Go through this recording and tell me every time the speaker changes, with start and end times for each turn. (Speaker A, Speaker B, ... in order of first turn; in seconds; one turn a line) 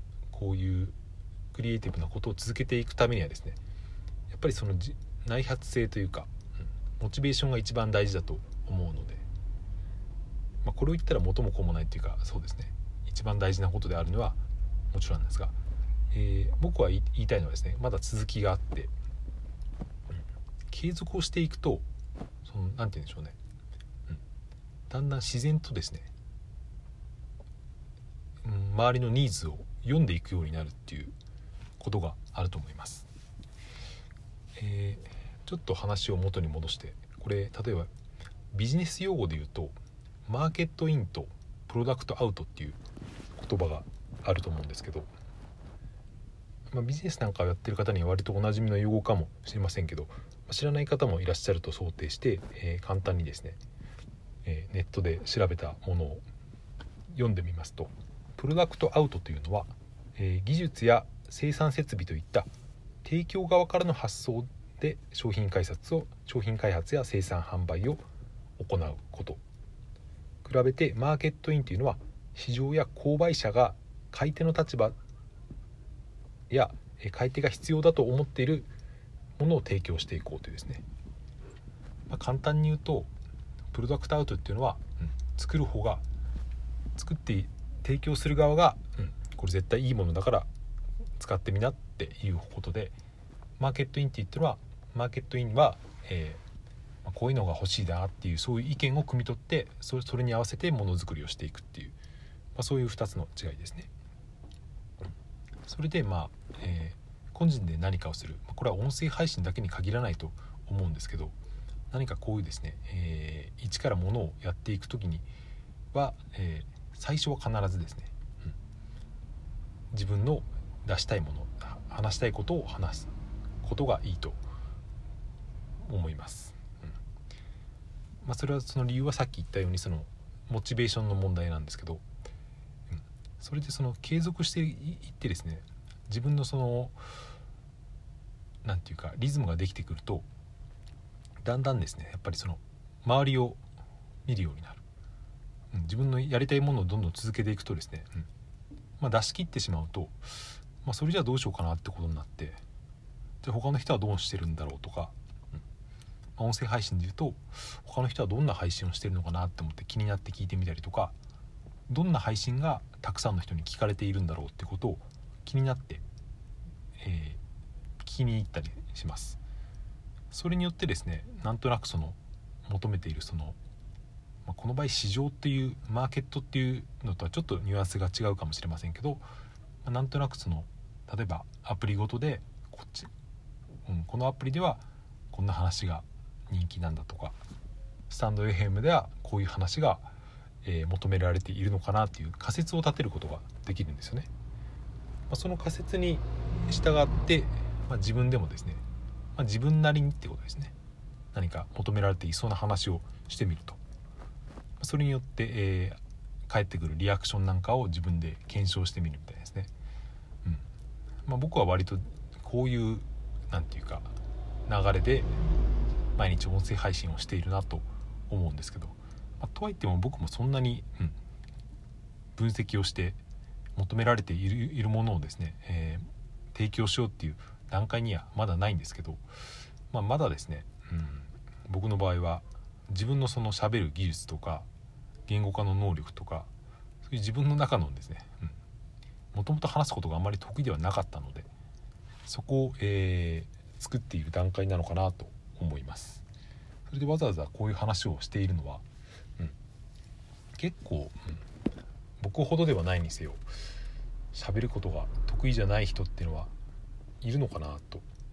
Speaker A: 0.3-0.9
Speaker A: 1.5-3.6
Speaker A: 4.3-6.3
Speaker A: 7.0-9.2
Speaker A: 10.6-14.4
Speaker A: 14.9-15.5
Speaker A: 16.1-18.9
Speaker A: 20.7-21.8
Speaker A: 22.4-23.4
Speaker A: 24.9-26.1
Speaker A: 28.4-31.1
Speaker A: 31.8-33.1
Speaker A: 34.5-37.9
Speaker A: 38.5-42.8
Speaker A: 43.4-45.1
Speaker A: 46.7-53.6
Speaker A: 54.4-56.2
Speaker A: 57.1-62.5
Speaker A: 63.0-68.0
Speaker A: 68.6-69.4
Speaker A: 70.4-75.0
Speaker A: 76.5-78.7
Speaker A: 79.4-80.8
Speaker A: 82.1-83.1
Speaker A: 83.7-86.0
Speaker A: 87.0-90.5
Speaker A: 91.2-92.9
Speaker A: 93.6-96.4
Speaker A: 97.0-101.9
Speaker A: 102.5-103.9
Speaker A: 105.7-111.3
Speaker A: 111.9-115.2
Speaker A: 115.9-118.5
Speaker A: 119.9-124.4
Speaker A: 125.8-126.8
Speaker A: 128.2-132.0
Speaker A: 132.9-137.0
Speaker A: 138.6-140.2
Speaker A: 141.4-143.6
Speaker A: 144.2-144.8
Speaker A: 145.7-148.3
Speaker A: 149.0-152.6
Speaker A: 153.4-155.1
Speaker A: 156.4-161.1
Speaker A: 161.9-166.0
Speaker A: 167.0-167.4
Speaker A: 168.0-169.4
Speaker A: 170.3-173.6
Speaker A: 174.4-179.2
Speaker A: 179.8-183.1
Speaker A: 183.8-187.4
Speaker A: 188.1-190.1
Speaker A: 190.6-194.3
Speaker A: 195.3-198.8
Speaker A: 199.3-200.7
Speaker A: 201.3-203.8
Speaker A: 204.8-209.7
Speaker A: 211.2-214.1
Speaker A: 214.7-215.4
Speaker A: 216.2-221.2
Speaker A: 222.3-223.2
Speaker A: 223.8-229.3
Speaker A: 229.9-234.7
Speaker A: 235.3-236.5
Speaker A: 237.0-238.5
Speaker A: 239.3-241.5
Speaker A: 242.3-246.2
Speaker A: 246.9-248.8
Speaker A: 250.6-251.4
Speaker A: 252.2-253.4
Speaker A: 254.3-256.5
Speaker A: 257.2-258.0